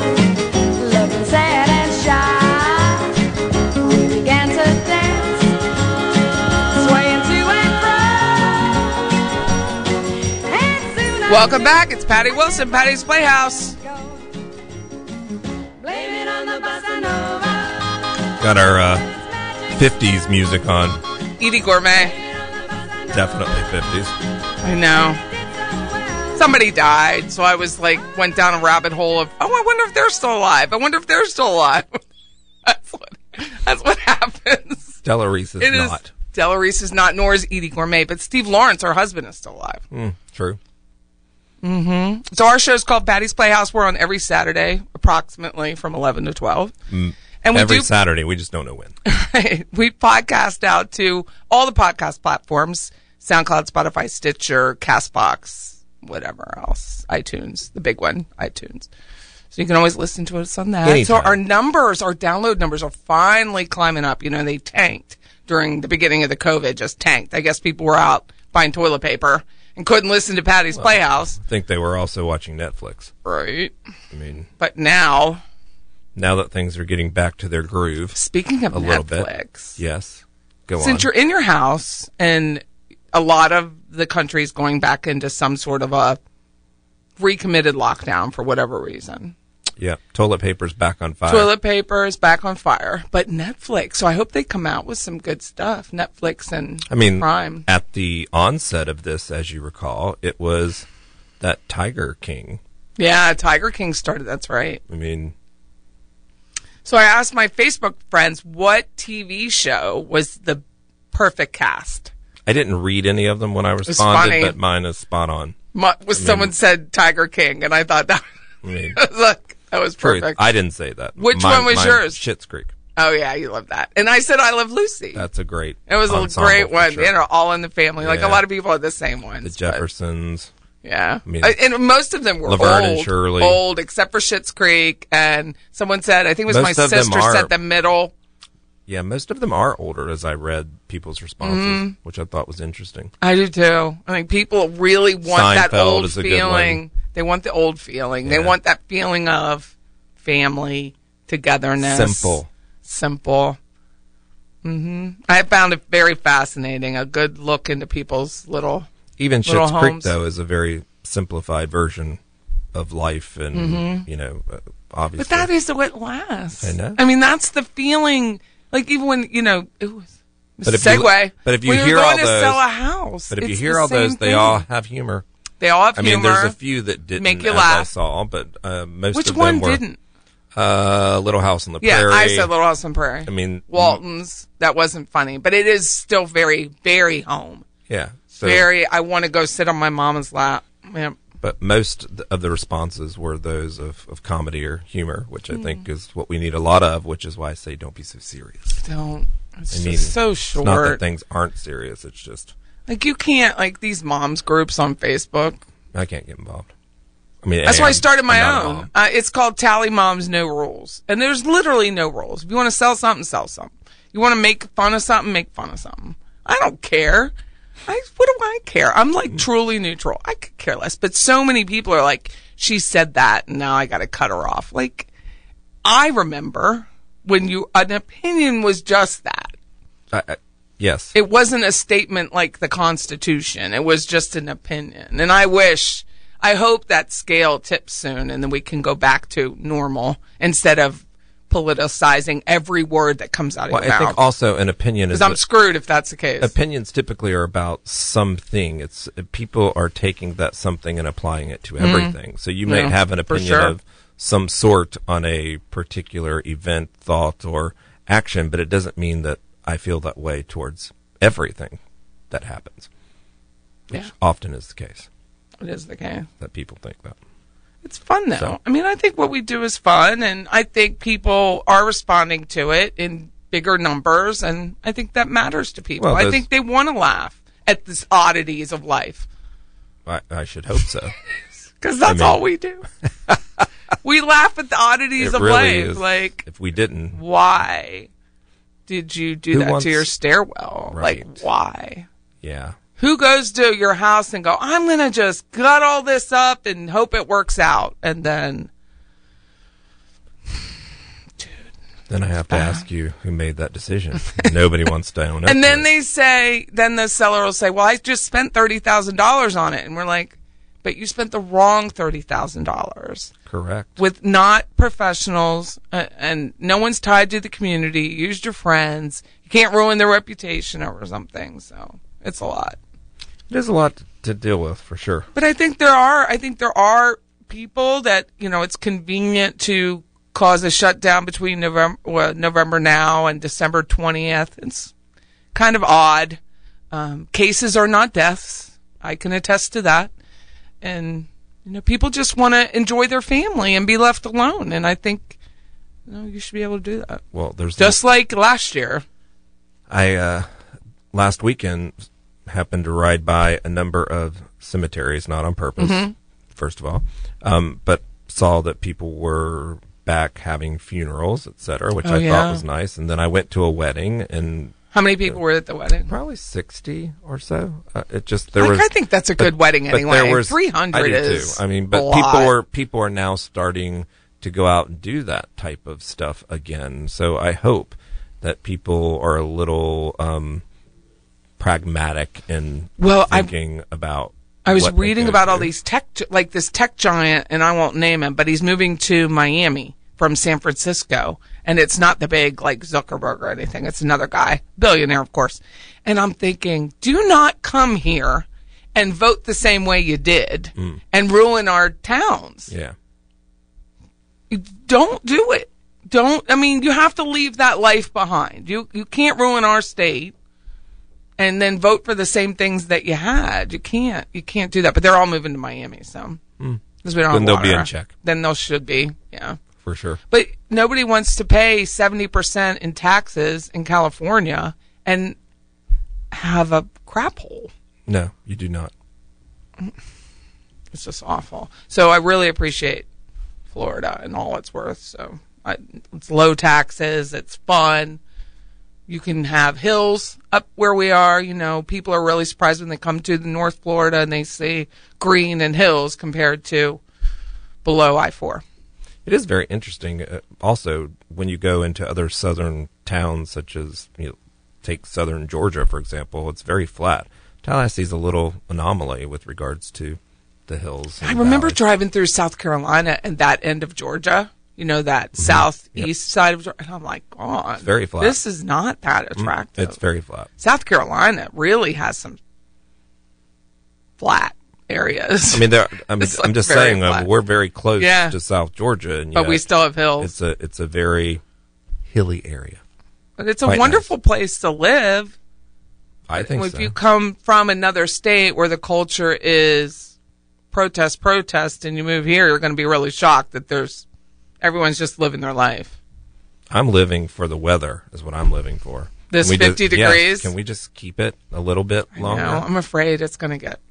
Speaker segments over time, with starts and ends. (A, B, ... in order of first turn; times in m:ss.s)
0:00.8-0:03.1 A
0:03.8-0:05.5 A
0:06.7-0:09.0 A
0:10.5-0:11.7 A
0:11.3-0:13.8 B
0:15.8-0:17.8 A
0:18.4-0:19.0 C
0:19.7-0:21.0 C
0:21.4-0:22.2 B
0:23.1-0:24.1 C
0:24.6-0:25.2 B
0:26.3-0:32.0 B
0:32.6-0:35.0 B
0:35.0-0:36.1 C
0:35.6-0:39.8 B
0:39.9-0:40.6 C
0:41.6-0:46.7 B
0:46.9-0:49.0 C
0:47.4-0:47.9 B
0:49.0-0:58.9 B
0:59.5-1:11.4 B
1:00.8-1:01.4 C
1:10.7-1:13.1 C
1:13.2-1:13.7 B
1:14.1-1:14.5 C
1:14.6-1:15.4 B
1:16.1-1:18.2 C
1:18.1-1:19.8 B
1:18.7-1:21.1 C
1:20.8-1:26.2 B
1:27.2-1:29.3 B
1:29.8-1:31.5 C
1:31.2-1:37.6 B
1:36.9-1:40.8 C
1:41.4-1:42.6 C
1:43.0-1:44.8 B
1:44.9-1:45.3 C
1:46.8-1:52.1 B
1:52.4-1:55.6 C
1:53.8-1:54.6 B
1:55.7-1:58.2 B
1:56.1-1:56.5 C
1:58.6-1:59.0 C
1:58.9-2:00.5 B
2:00.0-2:02.7 C
2:01.2-2:02.2 B
2:03.0-2:05.2 B
2:05.1-2:07.1 C
2:05.9-2:09.8 B
2:08.0-2:08.4 C
2:09.4-2:10.5 C
2:10.8-2:18.1 B
2:11.2-2:11.6 C
2:12.4-2:13.6 C
2:16.5-2:17.5 C
2:18.9-2:23.1 C
2:21.4-2:21.9 B
2:23.2-2:33.6 B
2:25.2-2:26.8 C
2:28.2-2:28.6 C
2:31.8-2:32.5 C
2:34.6-2:38.9 B
2:39.2-2:42.2 C
2:39.4-2:40.1 B
2:42.7-2:45.5 C
2:43.5-2:44.0 B
2:45.2-2:54.6 B
2:46.6-2:47.0 C
2:50.6-2:52.6 C
2:53.3-2:55.2 C
2:55.6-2:56.6 B
2:55.9-2:59.8 C
2:57.2-2:57.9 B
2:59.1-3:00.0 B
3:00.5-3:02.5 C
3:01.8-3:07.6 B
3:03.2-3:04.0 C
3:07.9-3:08.7 C
3:08.4-3:11.2 B
3:11.4-3:18.8 C
3:15.5-3:15.8 B
3:18.8-3:21.0 B
3:19.7-3:22.5 C
3:22.9-3:25.6 B
3:25.9-3:26.7 C
3:27.4-3:28.9 C
3:27.6-3:37.3 B
3:37.9-3:45.1 B
3:45.8-3:49.5 B
3:50.1-3:51.1 C
3:51.1-4:04.2 B
4:03.7-4:05.4 C
4:05.1-4:06.5 B
4:06.4-4:22.9 C
4:11.8-4:13.7 B
4:23.9-4:25.1 C
4:25.6-4:26.3 B
4:26.4-4:27.2 C
4:27.8-4:39.3 B
4:36.0-4:36.4 C
4:40.0-4:41.1 C
4:41.8-4:42.8 B
4:42.0-4:42.4 C
4:43.3-4:43.6 C
4:44.0-4:46.4 B
4:45.2-4:47.2 C
4:47.1-4:48.1 B
4:48.9-4:52.1 B
4:49.5-4:50.1 C
4:50.9-4:51.4 C
4:52.4-4:52.8 C
4:53.0-4:58.7 B
5:02.1-5:05.9 C
5:02.5-5:02.8 B
5:05.4-5:13.3 B
5:13.5-5:14.0 C
5:14.0-5:22.8 B
5:23.5-5:25.3 C
5:25.3-5:34.9 B
5:35.5-5:36.4 B
5:36.9-5:40.1 B
5:40.8-5:45.4 B
5:46.1-5:47.2 B
5:47.3-5:48.0 C
5:47.8-5:49.0 B
5:49.9-5:50.5 C
5:51.1-6:05.4 C
5:55.8-5:56.1 B
6:02.0-6:02.6 B
6:04.9-6:06.1 B
6:06.1-6:20.6 C
6:08.6-6:12.5 B
6:21.6-6:25.7 C
6:23.0-6:23.5 B
6:24.6-6:42.7 B
6:40.8-6:41.0 C
6:42.7-6:42.9 C
6:44.5-6:50.3 B
6:51.4-6:56.4 B
6:56.6-6:58.1 C
6:57.0-6:59.6 B
6:59.8-7:00.2 C
7:00.3-7:05.4 B
7:06.3-7:07.7 B
7:08.0-7:08.9 C
7:10.9-7:13.1 B
7:13.7-7:18.2 B
7:19.1-7:27.0 B
7:27.8-7:28.6 B
7:29.2-7:41.8 C
7:41.2-7:50.0 B
7:45.4-7:46.1 C
7:47.8-7:48.4 C
7:49.4-7:50.5 C
7:50.6-7:52.4 B
7:54.2-7:57.3 B
7:55.5-8:01.4 C
7:58.0-7:58.4 B
7:59.3-8:00.3 B
8:02.0-8:02.8 C
8:03.4-8:05.4 B
8:03.6-8:04.1 C
8:06.3-8:06.9 C
8:06.3-8:10.1 B
8:10.7-8:14.0 B
8:14.6-8:15.9 B
8:16.7-8:22.6 C
8:19.3-8:20.5 B
8:22.1-8:23.8 B